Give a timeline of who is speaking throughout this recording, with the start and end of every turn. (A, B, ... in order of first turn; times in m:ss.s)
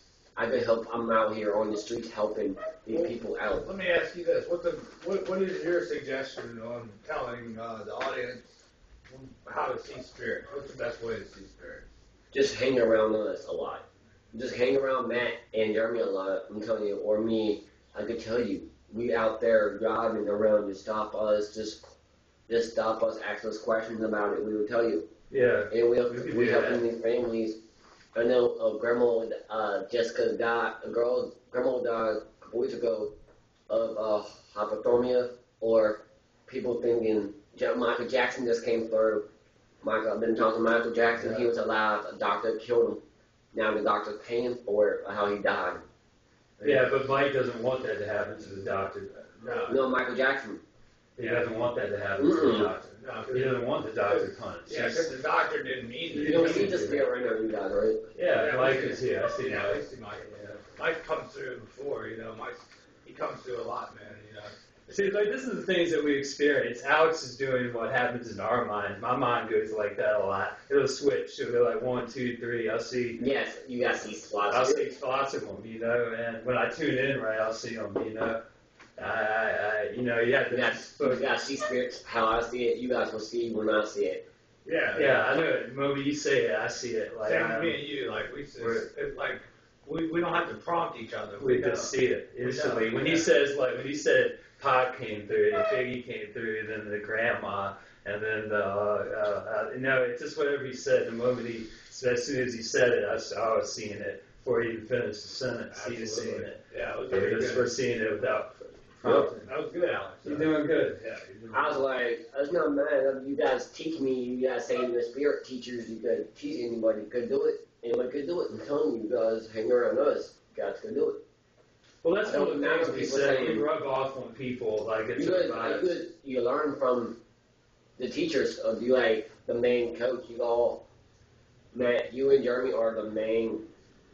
0:00.4-0:03.7 A
0:03.5-0:08.5 B
0:09.1-0:11.9 B
0:12.3-0:21.9 A
0:22.5-0:25.1 A
0:25.3-0:26.8 C
0:25.7-0:27.6 A
0:28.1-0:33.1 A
0:33.7-0:39.2 A
0:39.8-0:43.0 A
0:41.2-0:41.5 C
0:43.5-0:45.8 A
0:46.6-0:46.9 B
0:46.6-0:49.2 C
0:49.4-0:49.9 B
0:49.6-0:50.6 A
0:51.2-0:55.1 C
0:51.2-0:51.5 B
0:52.2-0:52.7 A
0:52.9-0:56.8 B
0:56.1-0:57.1 C
0:56.2-0:58.1 A
0:58.1-1:00.6 C
0:58.3-1:05.1 B
1:04.9-1:13.2 C
1:13.2-1:14.9 A
1:14.5-1:18.4 C
1:19.0-1:21.3 C
1:20.5-1:24.2 A
1:24.6-1:25.2 B
1:24.9-1:27.8 C
1:27.2-1:33.3 B
1:28.6-1:28.8 C
1:31.4-1:49.5 C
1:45.7-1:47.8 B
1:49.1-1:51.8 B
1:50.2-1:51.0 C
1:51.5-2:01.2 A
2:02.0-2:05.9 C
2:02.2-2:03.7 A
2:05.2-2:07.2 A
2:08.0-2:10.8 A
2:11.7-2:13.6 A